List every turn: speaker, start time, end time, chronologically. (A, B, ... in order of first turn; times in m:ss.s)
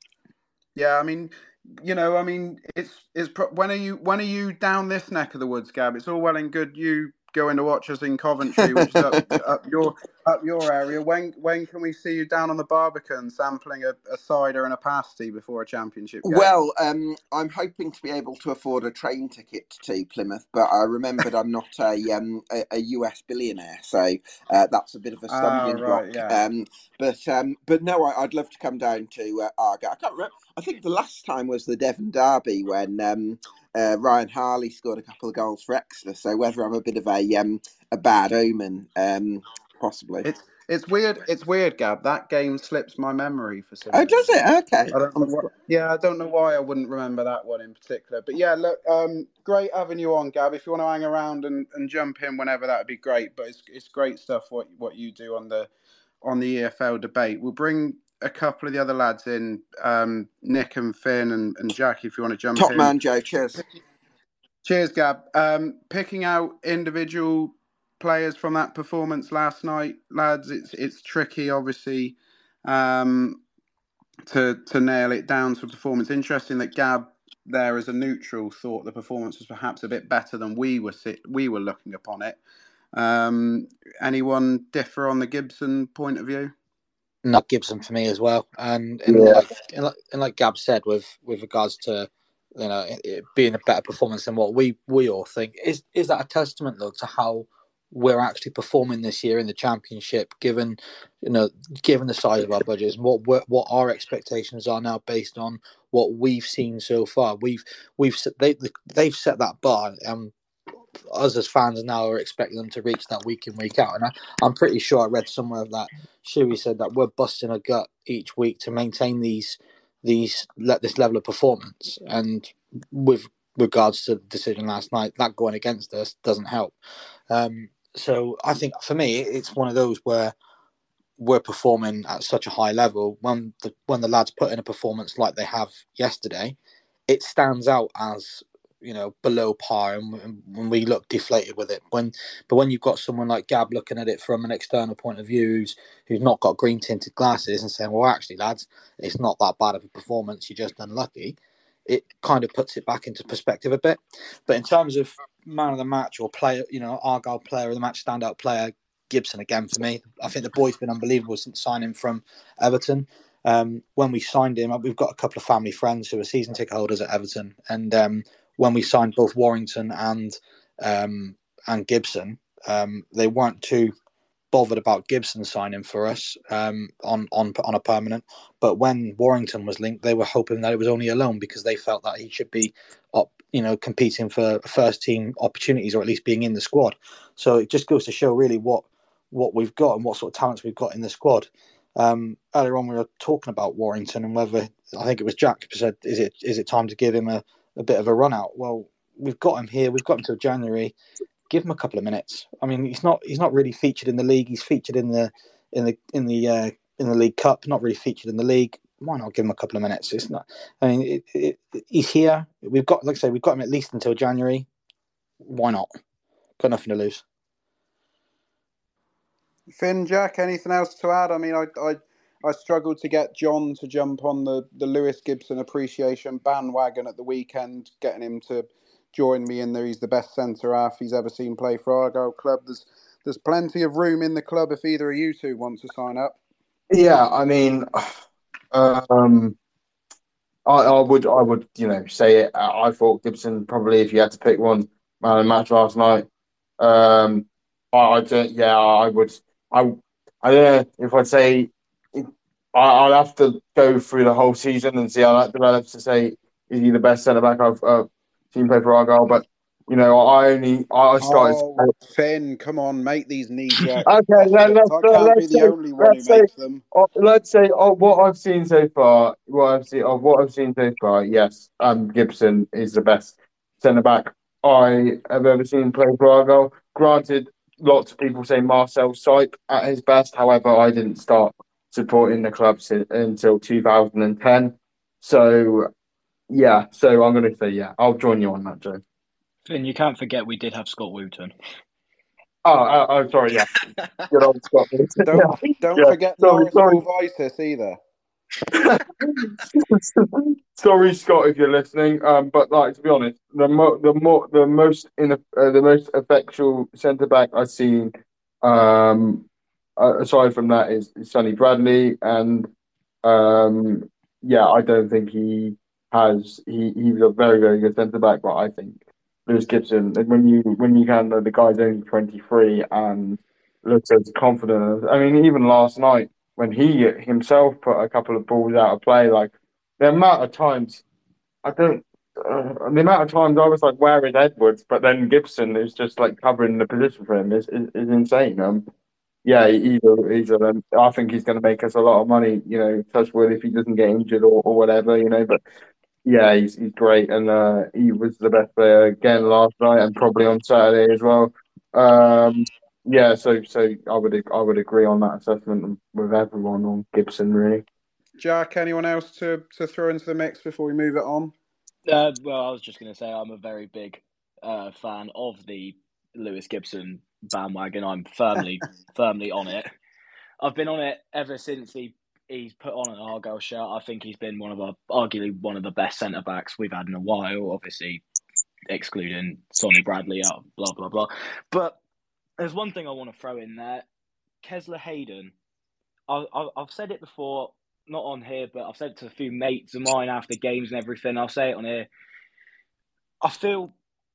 0:00.8-0:16.6 A
0:08.6-0:09.3 B
0:16.2-0:40.3 B
0:25.3-0:26.4 A
0:40.2-0:55.7 A
0:43.9-0:45.5 B
0:56.2-1:02.9 A
1:02.6-1:03.6 B
1:04.6-1:13.4 A
1:14.3-1:22.4 A
1:22.9-1:26.5 A
1:27.2-1:50.3 C
1:29.1-1:29.4 D
1:51.1-2:06.8 C
2:07.3-2:10.3 C
2:11.2-2:16.6 C
2:17.1-2:53.9 C
2:54.5-3:20.9 C
3:21.5-3:34.7 C
3:35.4-3:35.9 C
3:36.6-3:37.2 C
3:39.7-3:56.4 A
3:56.9-3:58.2 D
3:58.7-3:59.6 D
4:00.7-4:06.3 D
4:06.8-4:21.9 D
4:21.2-4:26.8 A
4:24.0-4:45.9 D
4:46.5-4:49.0 D
4:49.6-4:51.5 E
4:52.6-4:53.7 D
4:54.3-4:57.0 D
4:55.3-4:58.0 A
4:58.8-5:09.5 D
5:10.0-5:12.7 D
5:13.2-5:31.0 D
5:31.6-5:38.8 D
5:39.4-5:45.6 D
5:46.2-5:57.8 D
5:58.4-6:01.5 A
6:02.1-6:09.9 E
6:10.6-6:18.2 E
6:18.9-6:22.0 E
6:22.6-6:24.1 E
6:24.6-6:25.5 E
6:26.3-6:32.1 E
6:33.4-6:33.9 E